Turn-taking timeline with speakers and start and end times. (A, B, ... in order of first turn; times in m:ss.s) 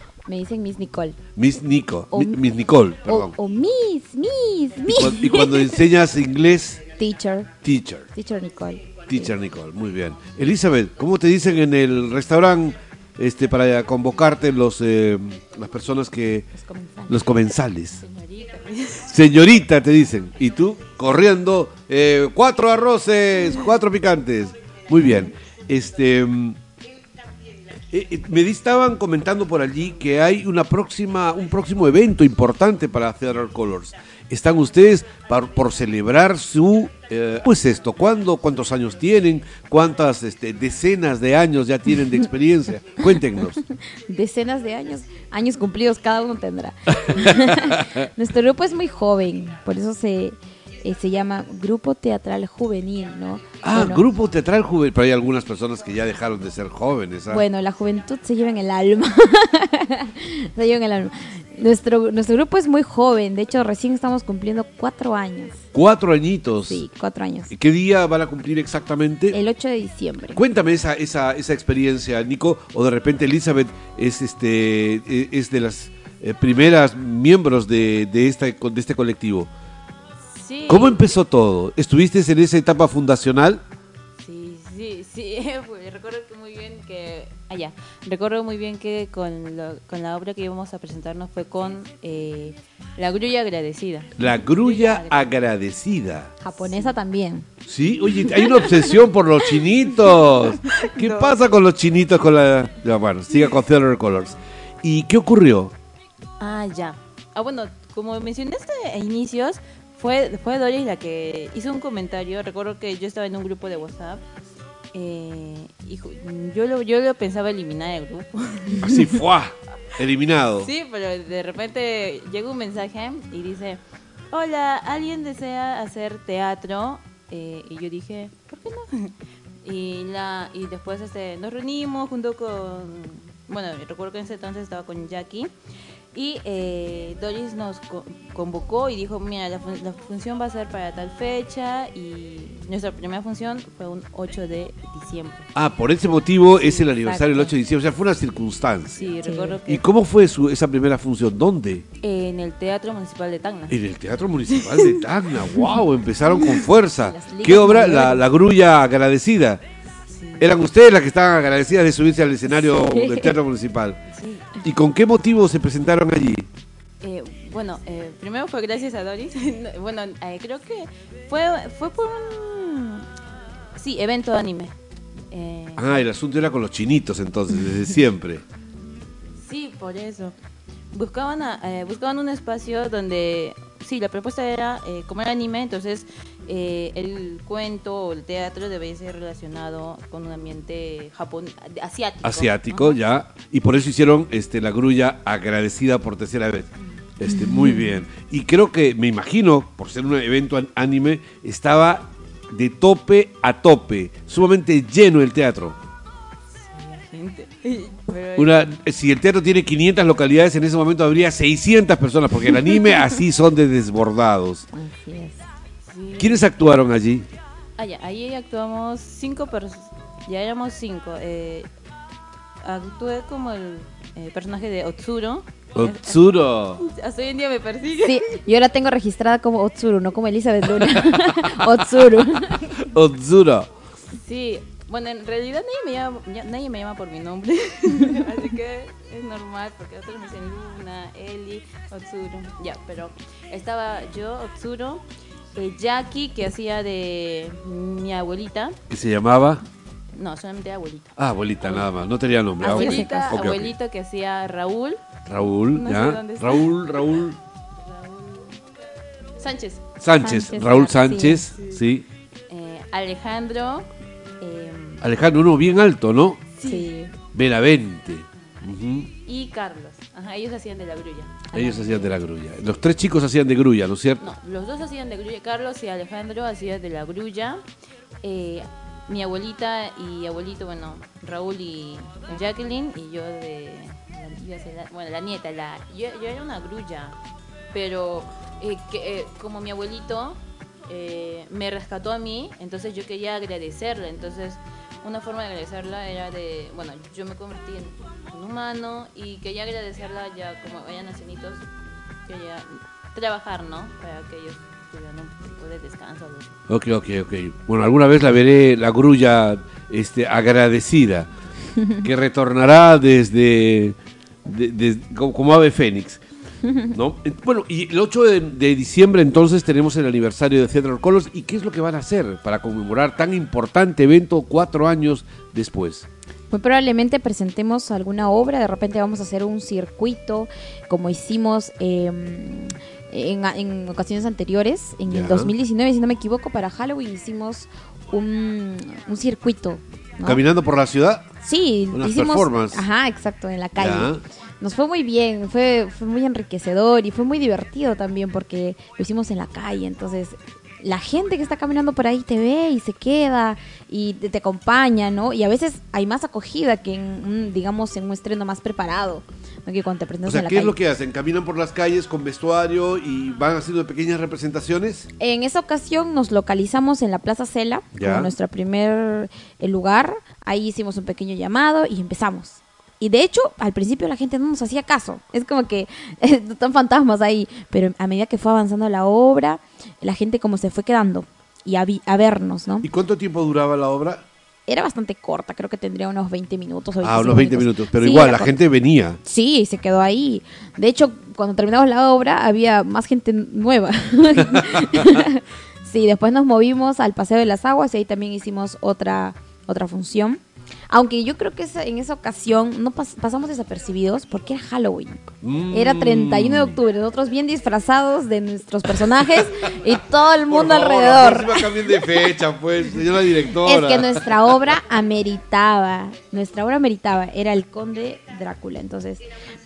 0:00.3-0:01.2 A
0:01.4-0:03.4 B
0:02.1-0:02.4 A
0:03.0-0:05.9 A
0:04.9-0:06.8 B
0:07.0-0:07.5 A
0:07.6-0:08.1 B
0:08.2-0:09.3 A
0:09.1-0:16.5 B
0:16.6-0:17.2 A
0:17.1-0:18.0 B
0:18.0-0:19.1 C
0:19.1-0:26.6 B
0:27.9-0:43.6 B
0:43.9-0:54.0 A
0:47.0-0:48.0 B
0:53.6-0:57.4 B
0:57.3-1:05.6 A
1:05.7-1:06.8 B
1:06.6-1:07.5 A
1:07.5-1:09.4 B
1:09.3-1:10.4 A
1:10.4-1:19.5 B
1:20.3-1:21.1 C
1:20.7-1:23.6 B
1:24.2-1:35.4 C
1:34.2-1:36.3 B
1:36.4-1:37.5 A
1:37.7-1:45.7 B
1:40.7-1:41.4 C
1:46.4-1:54.2 C
1:54.9-1:59.1 C
1:58.8-2:00.7 B
2:00.6-2:15.5 C
2:16.1-2:25.5 C
2:25.6-2:31.8 B
2:26.7-2:27.5 C
2:29.0-2:29.8 C
2:29.2-2:29.6 A
2:32.0-2:33.8 C
2:33.7-2:39.6 B
2:34.6-2:35.0 C
2:37.0-2:38.3 A
2:40.1-2:40.6 C
2:40.4-2:44.0 B
2:42.5-2:43.4 A
2:44.1-2:44.6 C
2:44.6-2:46.5 B
2:47.0-2:53.1 C
2:53.8-2:54.8 C
2:55.3-2:56.0 C
2:55.8-2:58.4 B
2:59.4-3:00.4 C
3:00.9-3:13.0 C
3:12.2-3:25.8 B
3:17.3-3:17.8 A
3:26.6-3:28.7 C
3:28.4-3:34.6 B
3:34.7-3:35.4 A
3:35.9-3:36.5 C
3:36.2-3:37.3 B
3:37.8-3:41.7 C
3:42.6-3:48.3 C
3:45.8-3:46.8 B
3:48.0-3:52.8 A
3:52.8-3:53.7 B
3:54.1-4:05.0 C
4:05.6-4:08.8 C
4:08.9-4:09.6 B
4:10.1-4:11.9 C
4:11.2-4:13.7 B
4:12.6-4:13.4 A
4:12.7-4:17.2 C
4:15.3-4:17.4 B
4:17.8-4:18.6 C
4:19.4-4:19.8 C
4:20.0-4:22.0 B
4:20.2-4:21.4 A
4:22.5-4:23.9 C
4:24.4-4:25.0 C
4:25.0-4:26.4 B
4:26.6-4:26.9 C
4:26.6-4:27.1 A
4:27.3-4:29.1 B
4:29.2-4:32.1 C
4:31.5-4:31.8 A
4:31.5-4:34.2 B
4:34.2-4:37.6 C
4:38.2-4:47.2 C
4:47.7-5:01.6 C
5:02.3-5:06.6 C
5:06.7-5:11.3 B
5:12.0-5:16.2 B
5:16.9-5:26.1 B
5:26.5-5:40.4 A
5:35.1-5:35.5 B
5:40.2-5:41.3 B
5:41.4-6:00.8 A
5:41.9-5:42.8 B
5:43.8-5:44.2 B
6:00.2-6:05.1 B
6:05.2-6:22.9 A
6:08.0-6:08.3 B
6:22.8-6:24.2 B
6:24.7-6:28.6 A
6:27.0-6:29.2 B
6:29.2-6:52.0 A
6:34.4-6:35.2 B
6:45.4-6:46.8 B
6:50.5-6:54.2 B
6:53.6-6:59.2 A